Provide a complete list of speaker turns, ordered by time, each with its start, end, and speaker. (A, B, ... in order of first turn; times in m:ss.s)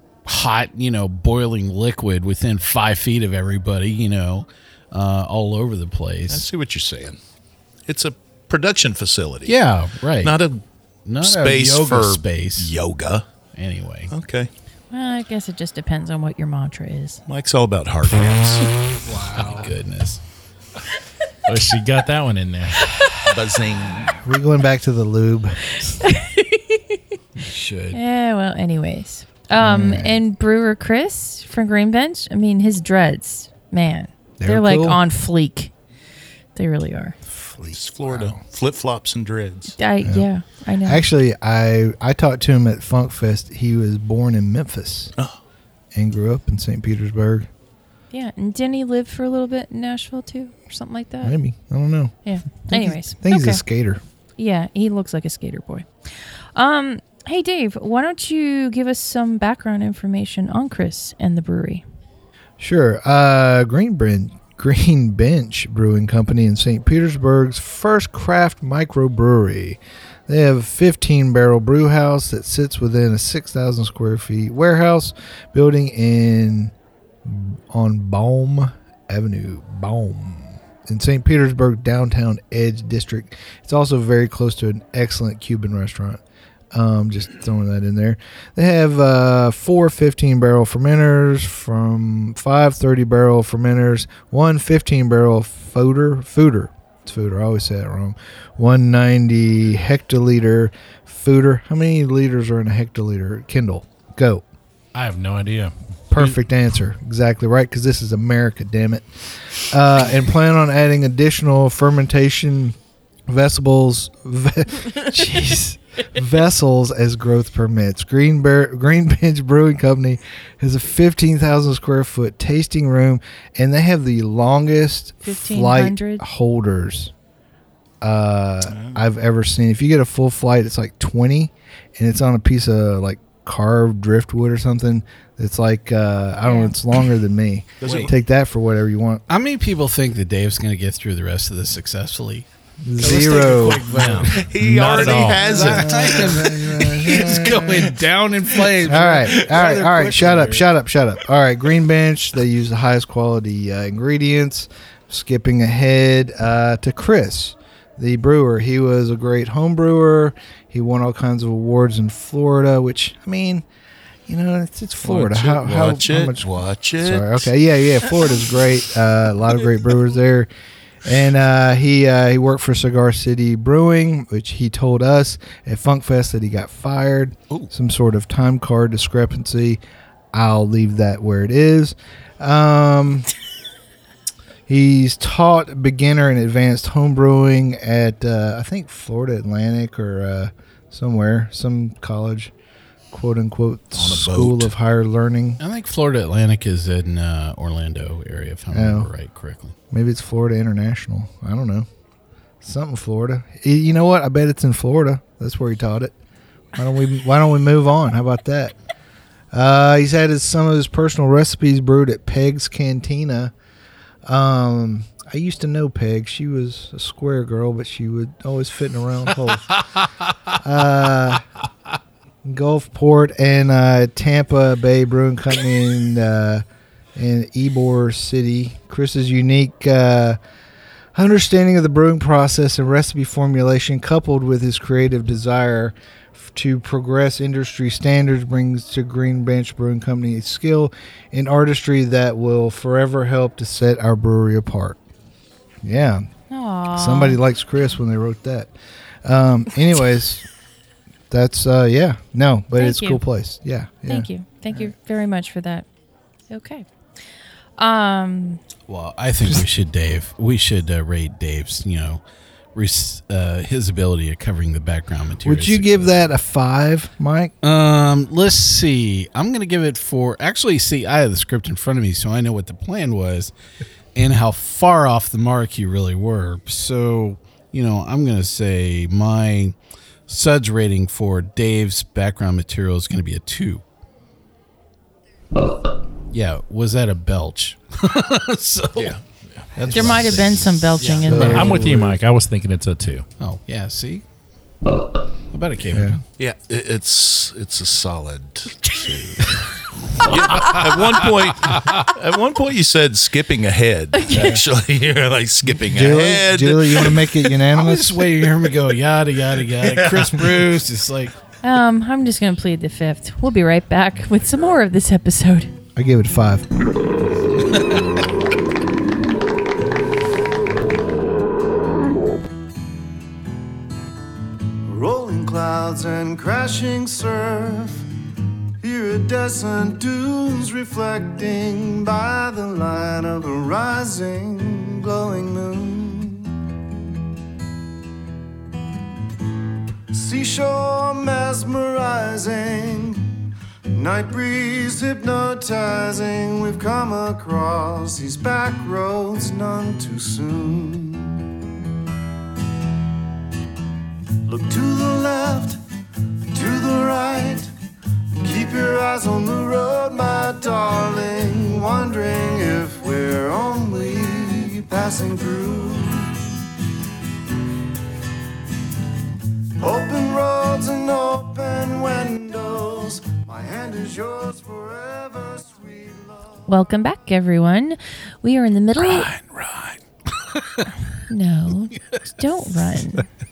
0:00.2-0:06.5 A
0:06.3-0:07.2 B
0:07.9-0:09.6 B
0:09.5-0:10.4 A
0:10.2-0:10.6 B
0:11.1-0:12.7 A
0:11.2-0:13.2 B
0:13.5-0:14.1 A
0:14.1-0:14.5 B
0:14.9-0:17.2 C
0:17.3-0:18.8 B
0:19.0-0:19.7 D
0:19.3-0:20.2 A
0:21.5-0:23.0 E
0:23.2-0:24.2 B
0:24.1-0:26.0 D
0:25.9-0:27.0 C
0:27.4-0:28.0 A
0:27.9-0:35.7 C
0:29.6-0:30.2 D
0:34.4-0:35.0 D
0:36.6-0:37.2 C
0:37.3-0:38.4 D
0:37.6-0:39.8 B
0:39.8-0:41.0 C
0:40.8-0:45.1 D
0:45.9-0:47.5 D
0:48.1-0:51.4 C
0:51.2-0:52.1 D
0:52.2-0:53.6 C
0:52.7-0:54.0 D
0:54.4-0:55.9 C
0:56.6-1:01.8 C
1:02.6-1:26.2 D
1:26.7-1:44.4 D
1:44.9-1:46.3 E
1:46.1-1:52.8 D
1:53.3-2:07.1 D
2:05.2-2:06.2 C
2:08.0-2:19.2 D
2:08.7-2:09.0 B
2:16.4-2:16.8 C
2:17.8-2:18.2 B
2:17.8-2:18.1 A
2:19.3-2:22.4 A
2:22.8-2:23.9 D
2:23.0-2:30.7 A
2:23.9-2:25.6 E
2:24.3-2:27.8 B
2:25.5-2:28.0 D
2:28.8-2:43.6 D
2:44.3-2:50.5 D
2:45.0-2:47.5 B
2:51.0-2:59.8 D
3:00.3-3:03.3 D
3:04.7-3:12.5 D
3:13.1-3:15.6 D
3:13.9-3:14.7 B
3:15.6-3:19.8 A
3:18.7-3:19.1 D
3:19.9-3:21.9 D
3:22.6-3:26.2 D
3:26.8-3:28.7 D
3:29.5-3:33.5 D
3:34.2-3:39.8 D
3:40.6-3:41.4 D
3:42.4-3:46.6 D
3:47.2-3:50.4 D
3:51.1-4:05.0 D
4:05.8-4:06.3 D
4:06.5-4:07.4 C
4:06.9-4:08.7 D
4:09.2-4:10.4 D
4:11.3-4:14.3 D
4:12.8-4:13.2 C
4:14.1-4:15.9 C
4:16.5-4:16.9 C
4:17.8-4:18.6 C
4:18.9-4:22.2 A
4:22.8-4:26.2 A
4:25.4-4:27.5 D
4:27.6-4:33.5 A
4:34.2-4:39.8 A
4:40.3-4:43.8 A
4:46.3-4:49.2 A
4:48.9-4:50.7 B
4:49.8-4:51.8 A
4:49.9-4:50.2 D
4:49.9-4:51.8 C
4:51.2-4:52.2 D
4:51.3-4:53.2 E
4:53.4-4:54.2 A
4:55.5-4:56.2 A
4:55.9-4:56.2 D
4:56.4-4:59.6 B
5:00.2-5:07.3 B
5:04.1-5:04.6 C
5:05.8-5:08.2 D
5:07.7-5:11.3 A
5:09.8-5:10.7 B
5:11.6-5:15.7 C
5:16.0-5:16.7 D
5:17.5-5:18.2 A
5:24.9-5:28.1 F
5:28.8-5:36.6 F
5:40.1-5:51.4 F
5:54.4-5:55.8 F
5:56.5-5:57.7 F
5:58.4-6:06.5 F
6:09.8-6:16.5 F
6:16.7-6:19.3 C
6:19.0-6:20.9 A
6:21.3-6:23.3 C